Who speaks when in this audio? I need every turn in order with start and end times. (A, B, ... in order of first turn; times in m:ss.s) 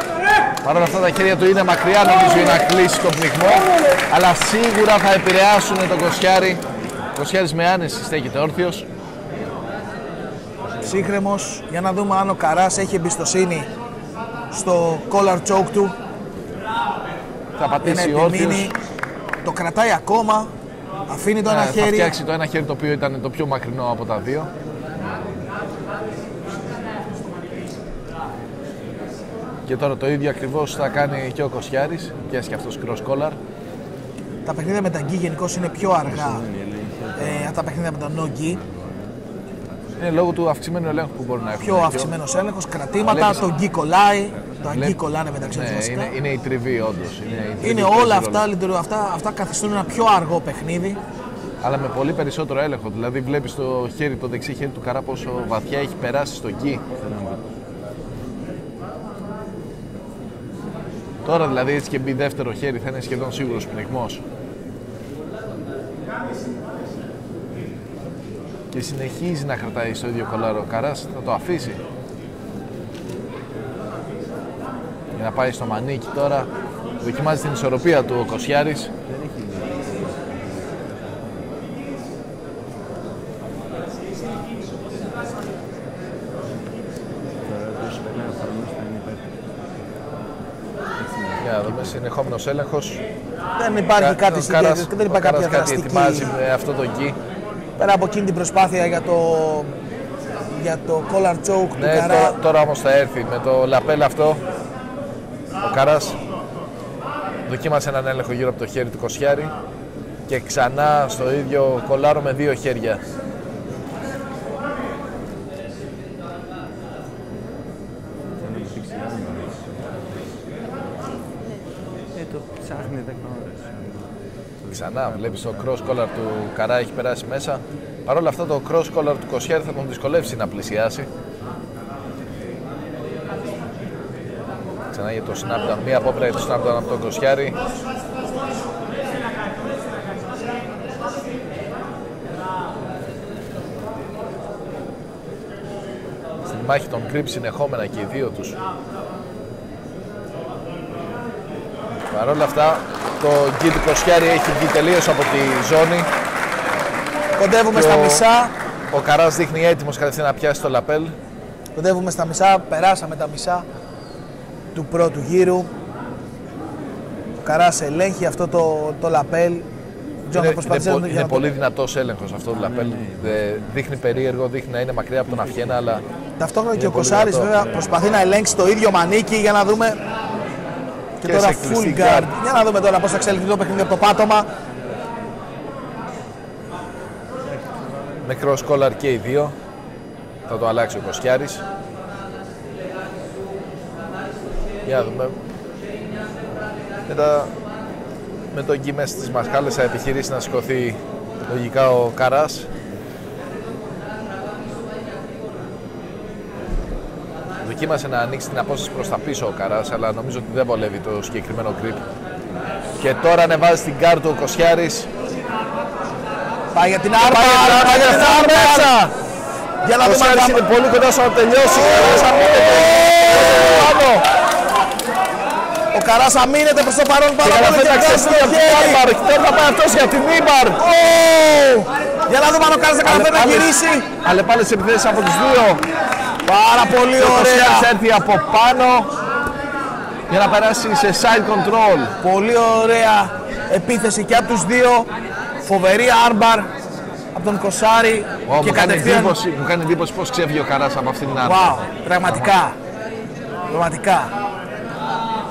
0:00.6-0:06.6 A
0:07.1-0:08.8 A
0:10.8-0:13.7 B
0:14.5-0:15.9 B
0:17.6-0:18.7 A
0:17.8-0:18.7 B
0:19.4-0:20.5 B
0:21.1-0:22.1 B
0:21.4-0:24.5 A
0:29.6-0:33.4 A
0:34.4-0:36.5 B
0:36.2-0:37.3 C
0:37.2-0:38.6 B
0:38.8-0:39.1 C
0:40.0-0:42.1 A
0:41.6-0:46.1 B
0:43.0-0:43.4 A
0:44.6-0:45.0 A
0:45.5-0:48.4 A
0:47.6-0:51.0 B
0:51.6-0:56.8 A
0:57.0-0:57.4 C
1:01.2-1:04.2 A
1:08.7-1:11.8 A
1:15.1-1:16.5 A
1:17.0-1:18.9 A
1:19.1-1:21.2 C
1:27.4-1:29.3 C
1:31.0-1:31.8 C
1:31.4-1:33.0 A
1:33.6-1:36.3 B
1:34.0-1:37.2 A
1:37.8-1:39.7 B
1:40.5-1:42.4 B
1:41.7-1:44.4 A
1:45.6-1:46.2 A
1:47.5-1:49.5 A
1:50.3-1:53.0 A
1:58.4-1:59.7 C
2:02.1-2:04.1 C
2:04.6-2:05.7 C
2:04.7-2:11.1 A
2:14.9-2:17.6 A
2:26.5-2:28.6 A
2:32.1-2:36.1 A
2:37.4-2:38.5 B
2:37.7-2:38.2 A
2:38.9-2:41.1 A
2:41.7-2:43.6 B
2:44.7-2:45.7 B
2:47.4-2:49.6 B
2:50.2-2:51.5 B
2:50.3-2:56.0 A
2:52.8-2:53.3 C
2:56.4-3:00.0 B
2:56.7-2:57.5 A
3:01.2-3:04.5 B
3:01.2-3:02.3 A
3:08.2-3:09.5 A
3:10.5-3:11.6 A
3:14.8-3:15.4 A
3:17.1-3:17.5 A
3:18.5-3:22.7 A
3:27.6-3:32.0 A
3:33.0-3:35.1 A
3:36.7-3:38.9 B
3:37.2-3:39.1 A
3:39.8-3:40.6 B
3:40.0-3:44.2 A
3:42.0-3:42.3 B
3:45.9-3:49.0 B
3:47.4-3:50.8 A
3:50.8-3:54.1 B
3:53.0-3:55.8 A
3:56.4-3:57.9 B
3:57.2-3:59.1 A
4:00.3-4:02.1 A
4:02.2-4:05.1 B
4:05.6-4:06.7 B
4:07.3-4:09.4 B
4:08.4-4:12.6 A
4:11.4-4:12.7 B
4:13.7-4:14.3 B